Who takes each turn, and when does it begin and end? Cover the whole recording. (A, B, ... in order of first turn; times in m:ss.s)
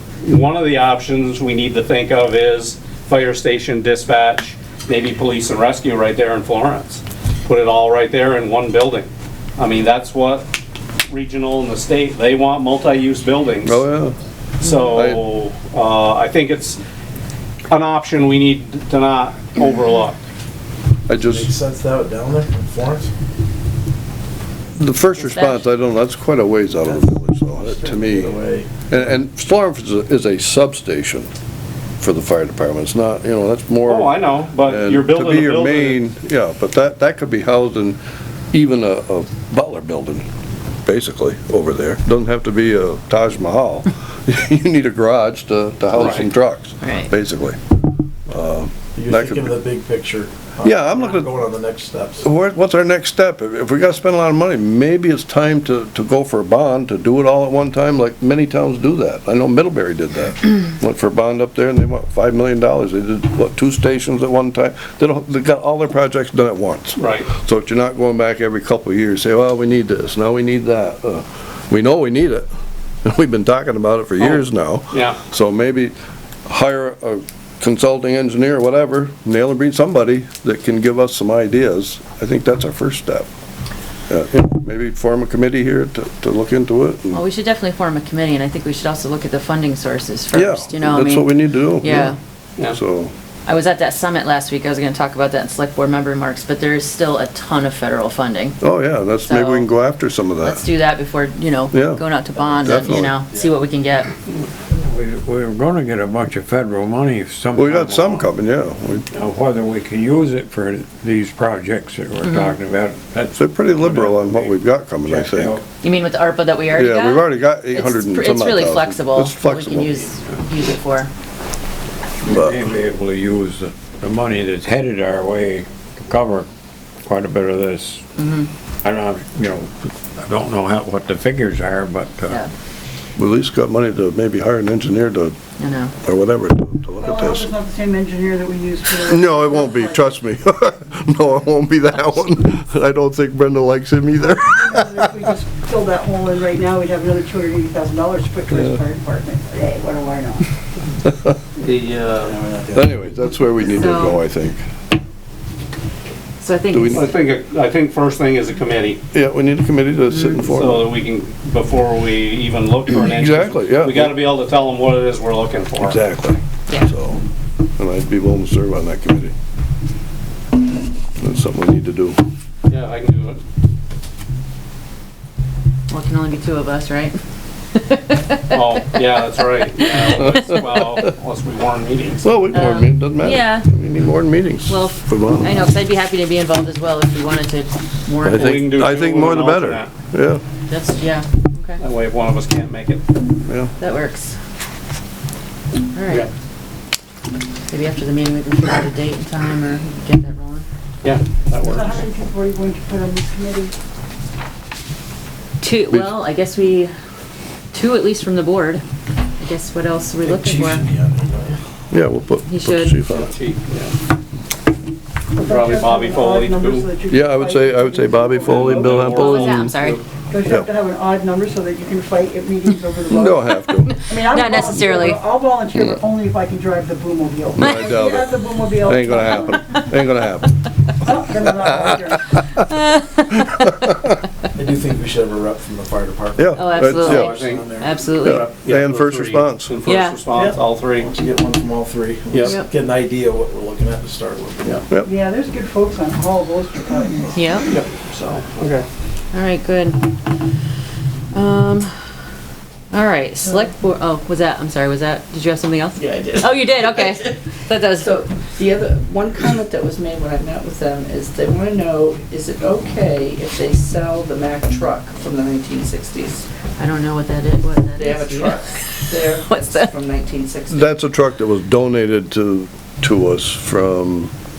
0:00.2-0:10.5 A
0:11.1-0:13.8 A
0:13.6-0:14.2 B
0:14.6-0:16.8 A
0:14.9-0:15.2 B
0:17.7-0:20.2 A
0:21.1-0:21.5 B
0:21.2-0:23.1 C
0:24.8-0:28.4 B
0:25.2-0:25.7 D
0:26.8-0:29.0 C
0:28.9-0:31.3 B
0:32.0-0:38.0 B
0:33.8-0:36.0 A
0:38.5-0:40.3 B
0:40.9-0:47.6 B
0:45.9-0:46.3 A
0:46.8-0:47.1 D
0:48.3-0:49.6 B
0:49.0-0:52.3 C
0:50.6-0:51.4 B
0:52.2-1:12.5 B
1:07.0-1:07.3 A
1:13.0-1:15.9 B
1:14.2-1:15.2 A
1:16.5-1:23.3 B
1:24.1-1:27.2 B
1:27.1-1:32.2 D
1:30.3-1:32.2 B
1:32.7-1:33.1 B
1:33.5-1:38.6 D
1:38.6-1:40.6 B
1:39.2-1:39.8 D
1:40.4-1:44.2 D
1:41.7-1:43.2 B
1:44.7-1:48.2 E
1:47.5-1:49.0 B
1:49.1-1:54.5 E
1:52.2-1:52.6 D
1:53.4-1:55.6 B
1:55.1-1:55.7 E
1:55.8-2:01.1 D
1:56.7-2:00.0 B
2:02.2-2:06.5 E
2:02.3-2:02.6 B
2:07.0-2:08.0 E
2:08.2-2:08.5 D
2:08.8-2:12.4 E
2:13.2-2:15.4 B
2:15.6-2:15.9 D
2:16.0-2:17.5 B
2:17.0-2:20.1 F
2:18.9-2:25.2 B
2:24.2-2:30.5 F
2:28.5-2:28.8 B
2:31.6-2:32.4 A
2:32.2-2:32.9 C
2:32.7-2:34.6 B
2:33.7-2:34.2 D
2:36.4-2:37.2 D
2:36.7-2:37.1 B
2:36.9-2:39.0 A
2:39.1-2:40.9 B
2:40.1-2:40.4 D
2:40.5-2:46.0 A
2:42.9-2:44.2 B
2:45.8-2:47.2 B
2:47.8-2:49.3 B
2:51.2-2:52.2 B
2:52.7-2:53.4 A
2:55.9-2:57.2 D
2:57.7-2:58.4 D
2:58.5-3:02.4 A
3:00.2-3:00.6 D
3:02.2-3:05.7 B
3:02.5-3:03.7 D
3:04.7-3:08.7 D
3:08.2-3:10.4 B
3:08.3-3:09.9 A
3:10.7-3:11.8 D
3:11.8-3:13.0 A
3:13.5-3:13.7 B
3:13.8-3:14.4 D
3:15.9-3:16.3 D
3:17.7-3:20.7 D
3:21.0-3:22.1 A
3:21.6-3:23.7 F
3:25.6-3:26.9 D
3:27.7-3:28.8 D
3:29.4-3:30.9 D
3:30.2-3:31.6 C
3:31.9-3:33.3 B
3:32.5-3:33.0 D
3:33.1-3:34.0 A
3:35.4-3:39.5 F
3:35.4-3:36.9 A
3:37.1-3:40.7 B
3:38.5-3:40.0 A
3:39.0-3:40.0 D
3:40.3-3:49.6 F
3:43.1-3:44.7 B
3:43.9-3:45.2 D
3:47.6-3:52.6 B
3:47.6-3:47.9 D
3:49.3-3:49.8 D
3:51.0-3:52.4 F
3:52.7-3:53.4 D
3:53.3-3:54.2 B
3:54.6-3:58.1 C
3:56.4-3:57.4 B
3:56.6-3:58.5 D
3:56.8-4:01.1 A
3:58.2-3:59.7 B
3:59.8-4:00.2 D
4:00.9-4:04.9 C
4:02.3-4:02.6 A
4:05.0-4:07.4 F
4:07.3-4:07.7 D
4:07.7-4:08.9 A
4:09.3-4:10.3 D
4:11.3-4:11.9 D
4:12.9-4:18.4 D
4:16.0-4:26.4 G
4:26.8-4:29.9 D
4:28.0-4:30.9 G
4:30.7-4:34.3 B